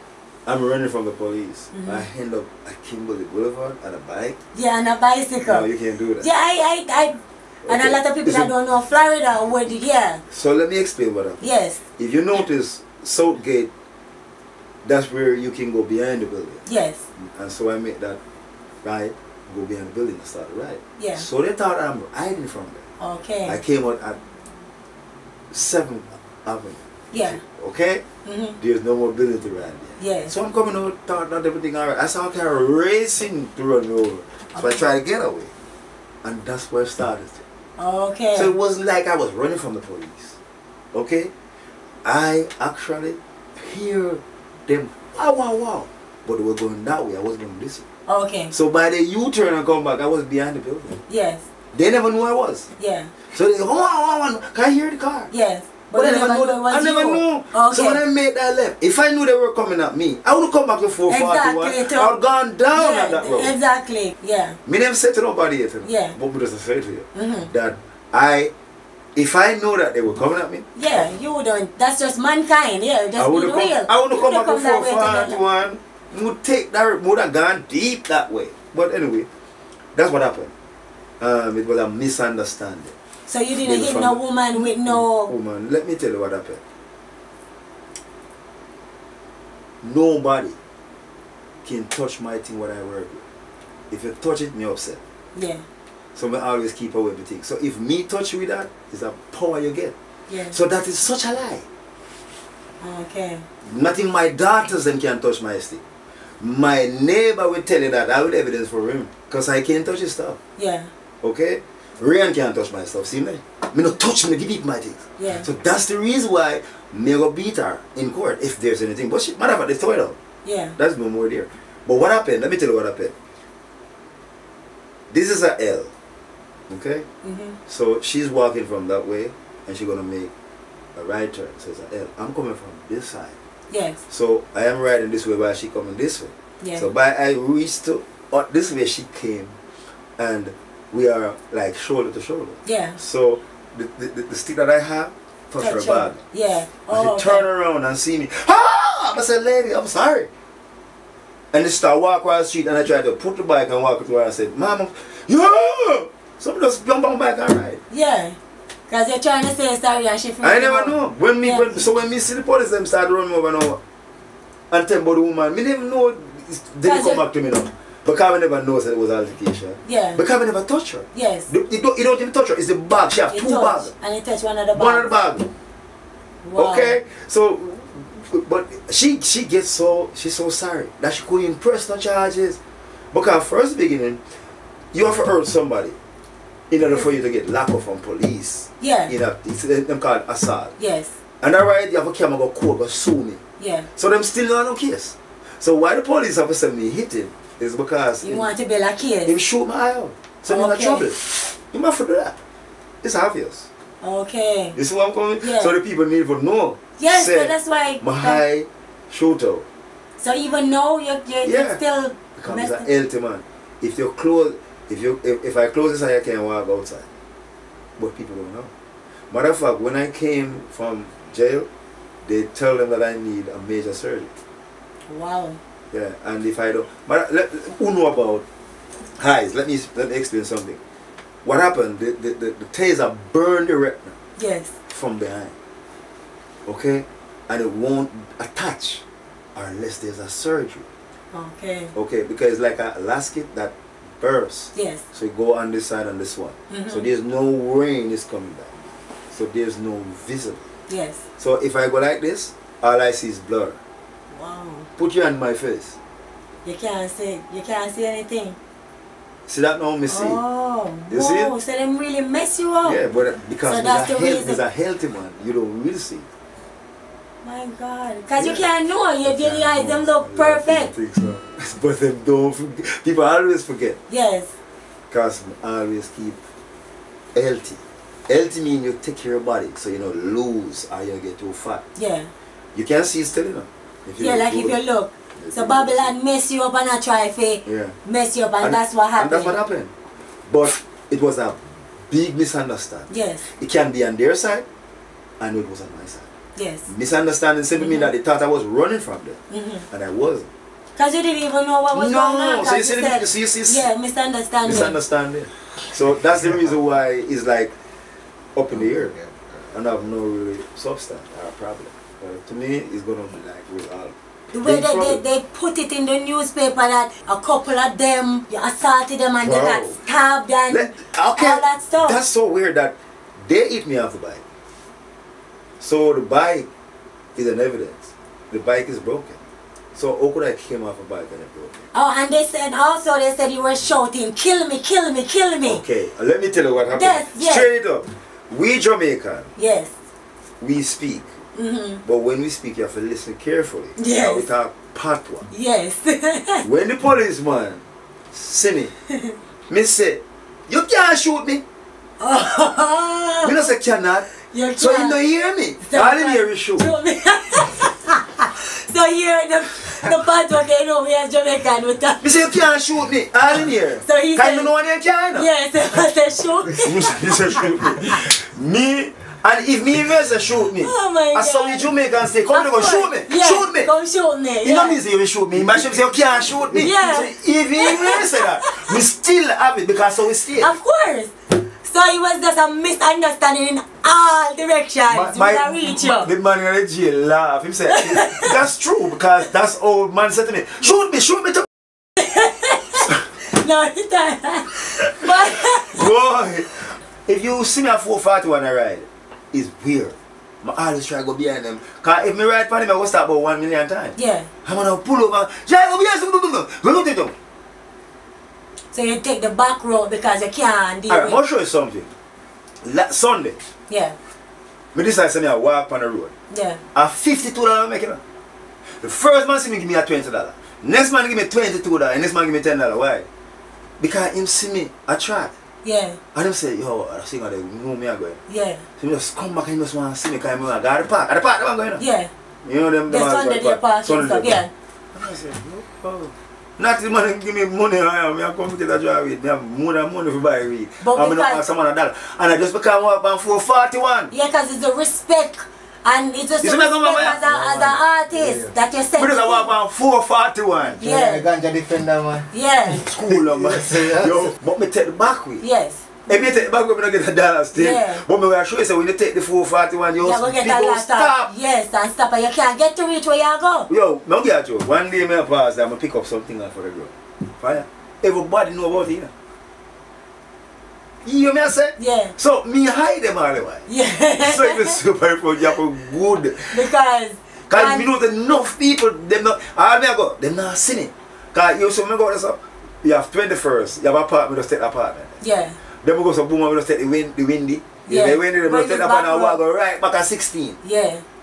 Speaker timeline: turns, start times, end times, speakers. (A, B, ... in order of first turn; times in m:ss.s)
0:00.4-0:04.4 A
0:01.7-0:02.0 B
0:04.5-0:05.7 B
0:05.4-0:06.3 A
0:06.2-0:10.2 B
0:07.6-0:08.5 A
0:10.3-0:13.7 A
0:11.4-0:11.8 B
0:14.8-0:16.6 A
0:16.6-0:17.0 B
0:17.2-0:18.2 A
0:18.8-0:22.8 A
0:21.0-0:21.2 B
0:23.0-0:23.6 B
0:23.4-0:24.2 A
0:25.5-0:28.0 A
0:27.1-0:27.4 B
0:28.2-0:28.6 B
0:28.6-0:35.5 A
0:30.0-0:30.3 B
0:34.5-0:34.8 B
0:36.2-0:37.4 A
0:37.8-0:38.5 B
0:38.3-0:40.4 A
0:40.9-0:41.3 A
0:42.0-0:47.8 A
0:48.1-0:48.5 B
0:48.5-0:51.0 A
0:51.1-0:51.4 B
0:51.7-0:52.7 A
0:52.8-0:53.1 B
0:53.3-0:55.3 A
0:55.3-0:58.0 B
0:55.9-1:03.5 A
1:01.1-1:02.1 B
1:02.7-1:04.6 B
1:04.6-1:08.5 A
1:05.8-1:06.2 B
1:07.1-1:07.5 B
1:09.1-1:10.7 A
1:10.8-1:15.4 B
1:13.2-1:19.3 A
1:19.9-1:20.5 A
1:21.2-1:22.9 A
1:23.3-1:25.3 B
1:23.6-1:26.6 A
1:29.8-1:30.6 A
1:31.6-1:33.2 A
1:33.9-1:35.0 A
1:35.3-1:35.6 B
1:36.1-1:39.9 A
1:40.3-1:40.6 B
1:40.5-1:41.6 A
1:42.8-1:43.4 B
1:43.6-1:45.8 A
1:46.4-1:50.4 A
1:50.6-1:50.9 B
1:51.2-2:00.2 A
1:55.2-1:55.4 B
2:00.4-2:00.8 B
2:00.8-2:03.2 A
2:05.1-2:05.9 A
2:06.7-2:07.1 A
2:07.2-2:07.6 B
2:07.7-2:10.3 A
2:10.9-2:13.4 A
2:13.7-2:14.0 B
2:14.1-2:19.6 A
2:16.6-2:16.9 B
2:20.2-2:26.2 A
2:22.6-2:23.0 B
2:25.6-2:27.4 B
2:26.9-2:30.3 A
2:31.5-2:37.8 A
2:37.9-2:38.4 B
2:38.9-2:41.7 B
2:40.4-2:43.8 A
2:44.7-2:53.9 A
2:46.8-2:47.2 B
2:49.8-2:50.2 B
2:51.1-2:51.5 B
2:53.3-2:55.1 B
2:54.7-2:55.5 A
2:56.4-2:57.0 B
2:56.5-3:02.6 A
3:03.1-3:04.2 A
3:04.9-3:06.0 A
3:06.7-3:10.7 A
3:08.8-3:09.1 B
3:10.8-3:11.1 B
3:11.4-3:13.4 A
3:13.6-3:13.9 B
3:14.0-3:18.5 A
3:18.2-3:19.3 B
3:19.2-3:22.4 A
3:20.5-3:21.1 B
3:23.0-3:23.7 A
3:24.0-3:24.8 B
3:24.7-3:29.6 A
3:25.4-3:25.7 B
3:27.0-3:28.4 B
3:30.2-3:32.9 B
3:31.4-3:31.8 A
3:32.4-3:37.1 A
3:38.0-3:38.7 A
3:39.3-3:41.7 A
3:42.2-3:44.3 A
3:45.1-3:45.6 B
3:45.9-3:48.4 A
3:49.2-3:50.8 A
3:51.4-3:54.2 A
3:54.4-3:54.7 B
3:54.9-3:55.5 A
3:56.6-4:00.9 A
4:01.3-4:01.9 B
4:01.9-4:08.8 A
4:04.7-4:05.0 B
4:06.7-4:07.1 B
4:09.3-4:10.6 A
4:10.9-4:11.2 B
4:11.4-4:13.8 A
4:14.3-4:14.9 B
4:15.0-4:16.0 A
4:16.6-4:18.6 B
4:19.4-4:20.4 A
4:20.1-4:23.0 B
4:21.1-4:21.5 A
4:22.8-4:26.3 A
4:23.6-4:24.6 B
4:27.4-4:30.9 B
4:28.3-4:28.6 A
4:29.2-4:34.0 A
4:34.1-4:34.5 B
4:35.1-4:36.4 A
4:37.3-4:41.8 A
4:42.0-4:42.3 B
4:42.7-4:44.8 A
4:44.2-4:49.6 B
4:45.4-4:46.1 A
4:47.6-4:48.0 A
4:48.6-4:49.9 A
4:50.5-4:54.6 A
4:53.1-4:53.5 B
4:55.4-4:56.3 A
4:56.6-4:56.9 B
4:56.9-5:00.5 A
4:57.8-4:58.1 B
4:59.5-4:59.8 B
5:01.0-5:05.0 B
5:01.9-5:03.9 A
5:04.6-5:07.7 A
5:08.5-5:15.2 A
5:14.5-5:22.2 B
5:19.4-5:20.0 A
5:20.7-5:24.4 A
5:25.8-5:26.7 A
5:27.4-5:29.4 A
5:29.9-5:31.9 A
5:31.9-5:35.8 B
5:35.6-5:39.5 A
5:36.9-5:37.7 B
5:39.6-5:39.9 B
5:40.6-5:41.3 A
5:41.6-5:42.0 B
5:42.0-5:45.5 A
5:44.0-5:44.5 B
5:45.5-5:46.6 B
5:46.6-5:48.9 A
5:49.7-5:51.6 A
5:52.2-5:53.6 B
5:53.4-5:56.9 A
5:54.4-5:55.2 B
5:55.8-6:02.3 B
6:02.2-6:05.5 A
6:04.0-6:04.7 B
6:05.3-6:07.8 B
6:06.8-6:13.9 A
6:10.8-6:11.9 B
6:12.5-6:15.0 B
6:14.6-6:20.7 A
6:16.7-6:18.9 B
6:20.6-6:26.3 B
6:25.1-6:31.7 A
6:27.9-6:28.5 B
6:32.2-6:36.0 B
6:35.2-6:47.3 A
6:44.2-6:44.5 B
6:48.9-6:51.4 B
6:51.1-6:52.1 A
6:52.8-6:53.6 A
6:53.9-6:54.2 B
6:54.9-6:56.3 A
6:56.5-6:56.8 B
6:56.9-6:58.2 A
6:59.0-7:03.3 A
7:04.0-7:05.5 A
7:05.8-7:06.2 B
7:06.3-7:08.4 A
7:08.5-7:08.8 B
7:09.0-7:12.0 A
7:12.0-7:12.3 B
7:12.6-7:14.6 A
7:13.1-7:14.7 B
7:15.1-7:24.3 A
7:21.0-7:21.6 B
7:24.3-7:29.7 B
7:26.6-7:28.0 A
7:28.3-7:28.7 C
7:29.1-7:31.0 A
7:30.9-7:34.5 C
7:31.0-7:31.4 B
7:32.5-7:33.0 B
7:33.0-7:35.6 A
7:35.6-7:36.6 B
7:36.3-7:41.5 A
7:37.7-7:38.2 B
7:40.2-7:43.9 B
7:43.9-7:49.3 A
7:51.2-7:53.9 A
7:52.0-7:52.3 B
7:53.9-7:55.0 B
7:54.4-7:56.9 A
7:56.7-7:58.1 B
7:57.7-8:05.4 A
8:05.4-8:05.8 B
8:06.0-8:10.8 A
8:08.0-8:09.6 B
8:10.8-8:11.2 B